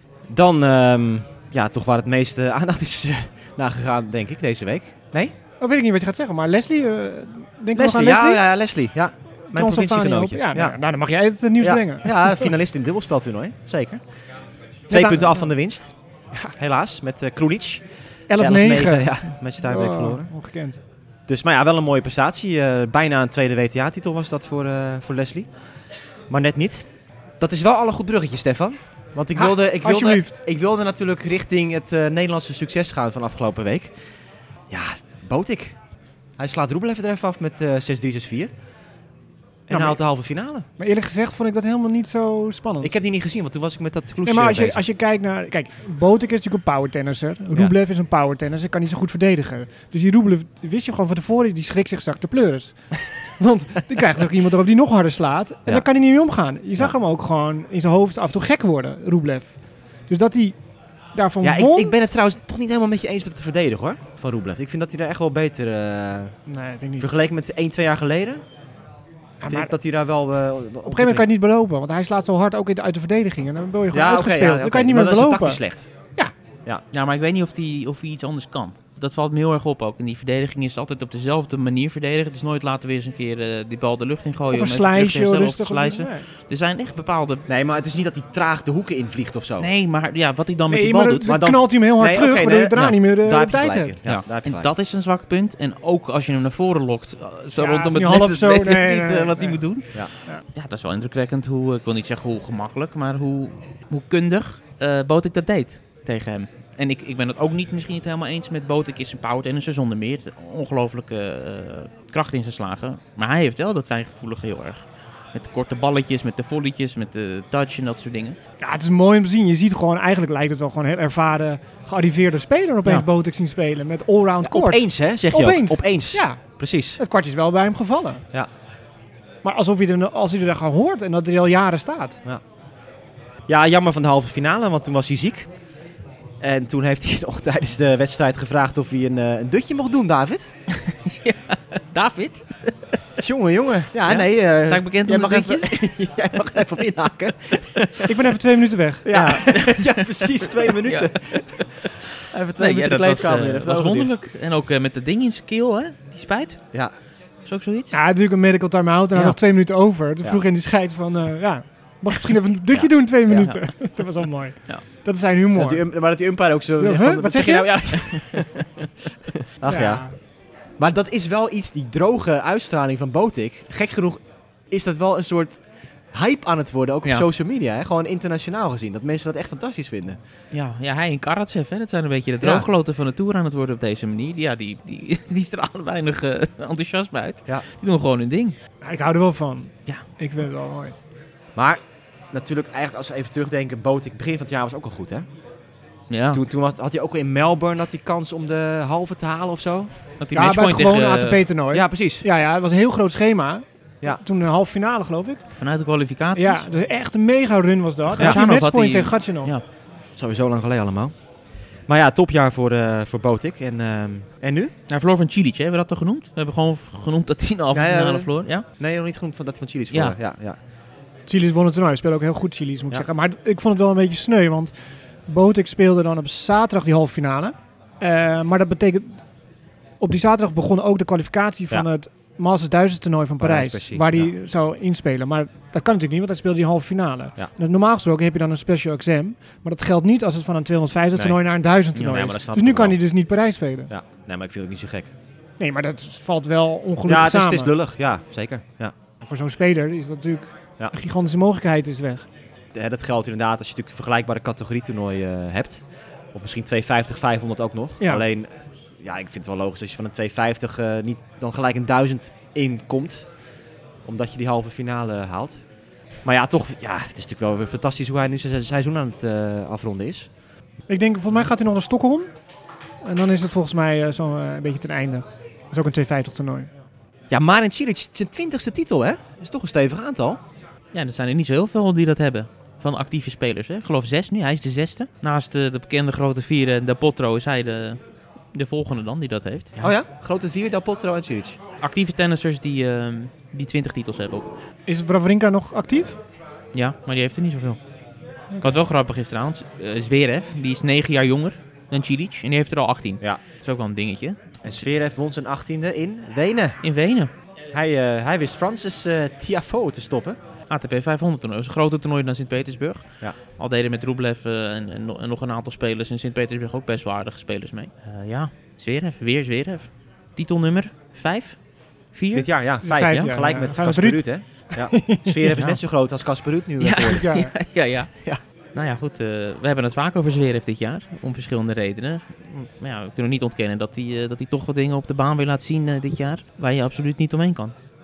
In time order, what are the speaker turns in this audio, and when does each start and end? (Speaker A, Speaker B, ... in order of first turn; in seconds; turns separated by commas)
Speaker A: 0.3-5.3, Speaker B: 5.6-8.4, Speaker A: 7.7-10.8, Speaker B: 9.5-12.5, Speaker A: 11.6-14.0, Speaker B: 14.9-15.5, Speaker A: 14.9-17.8, Speaker B: 18.3-20.8, Speaker A: 18.4-20.3, Speaker A: 21.3-25.5, Speaker A: 26.3-26.9, Speaker A: 27.4-33.9, Speaker B: 29.3-30.4, Speaker A: 34.7-35.8, Speaker A: 36.4-38.5, Speaker A: 39.7-40.6, Speaker B: 39.7-40.0, Speaker B: 40.8-42.9, Speaker A: 42.8-44.8, Speaker B: 44.2-60.6, Speaker B: 61.1-61.9, Speaker A: 61.4-66.4, Speaker B: 66.5-67.1, Speaker A: 67.0-68.4, Speaker B: 69.4-69.7, Speaker A: 69.5-71.2, Speaker B: 70.8-75.6, Speaker A: 73.9-75.9, Speaker C: 76.9-87.4, Speaker B: 84.5-86.2, Speaker A: 87.5-89.7, Speaker C: 89.6-91.5, Speaker B: 90.7-93.9, Speaker A: 91.3-94.7, Speaker C: 94.0-118.4, Speaker B: 97.6-99.6, Speaker B: 118.6-128.2, Speaker A: 124.4-127.0, Speaker B: 129.4-132.2, Speaker A: 133.5-135.5, Speaker A: 136.4-140.5, Speaker C: 140.8-142.8, Speaker A: 143.2-148.1, Speaker C: 144.1-146.6, Speaker B: 148.1-149.5, Speaker A: 149.0-154.1, Speaker C: 149.5-151.9, Speaker C: 152.6-156.9, Speaker C: 157.4-158.0, Speaker B: 157.9-165.8, Speaker A: 162.7-163.5, Speaker C: 163.3-164.8, Speaker A: 165.6-168.7, Speaker B: 166.8-167.9, Speaker C: 168.1-168.3, Speaker A: 169.6-180.2, Speaker B: 169.7-170.2, Speaker C: 180.5-188.6, Speaker A: 182.4-182.7, Speaker B: 188.8-190.9, Speaker A: 191.6-191.8, Speaker A: 192.3-195.2, Speaker C: 196.1-196.4, Speaker A: 196.3-199.9, Speaker C: 200.2-201.4, Speaker B: 200.3-205.4, Speaker A: 201.7-202.2, Speaker C: 205.6-206.6, Speaker B: 206.3-209.6, Speaker C: 208.1-209.6, Speaker A: 210.2-211.1, Speaker A: 211.8-214.7, Speaker C: 214.9-218.6, Speaker A: 217.7-220.6, Speaker B: 221.3-229.2, Speaker B: 230.0-243.9, Speaker A: 233.4-234.3, Speaker A: 241.9-243.0, Speaker A: 243.9-245.1, Speaker B: 245.6-247.7, Speaker A: 247.1-248.9, Speaker B: 249.2-252.2, Speaker A: 252.7-263.3, Speaker A: 264.0-265.6, Speaker A: 266.2-270.3, Speaker B: 270.9-272.3, Speaker B: 273.0-276.7, Speaker A: 277.3-280.4, Speaker C: 280.9-288.0, Speaker C: 288.5-289.9, Speaker A: 289.8-291.6, Speaker C: 291.8-294.5, Speaker B: 294.9-296.2, Speaker C: 296.7-297.8, Speaker B: 298.5-298.8, Speaker C: 298.6-304.8, Speaker A: 304.6-306.8, Speaker C: 306.8-307.3, Speaker A: 307.7-310.4, Speaker C: 310.7-323.3, Speaker A: 322.3-327.3, Speaker B: 322.8-325.6, Speaker C: 326.8-328.1, Speaker B: 327.1-327.5, Speaker C: 328.7-337.7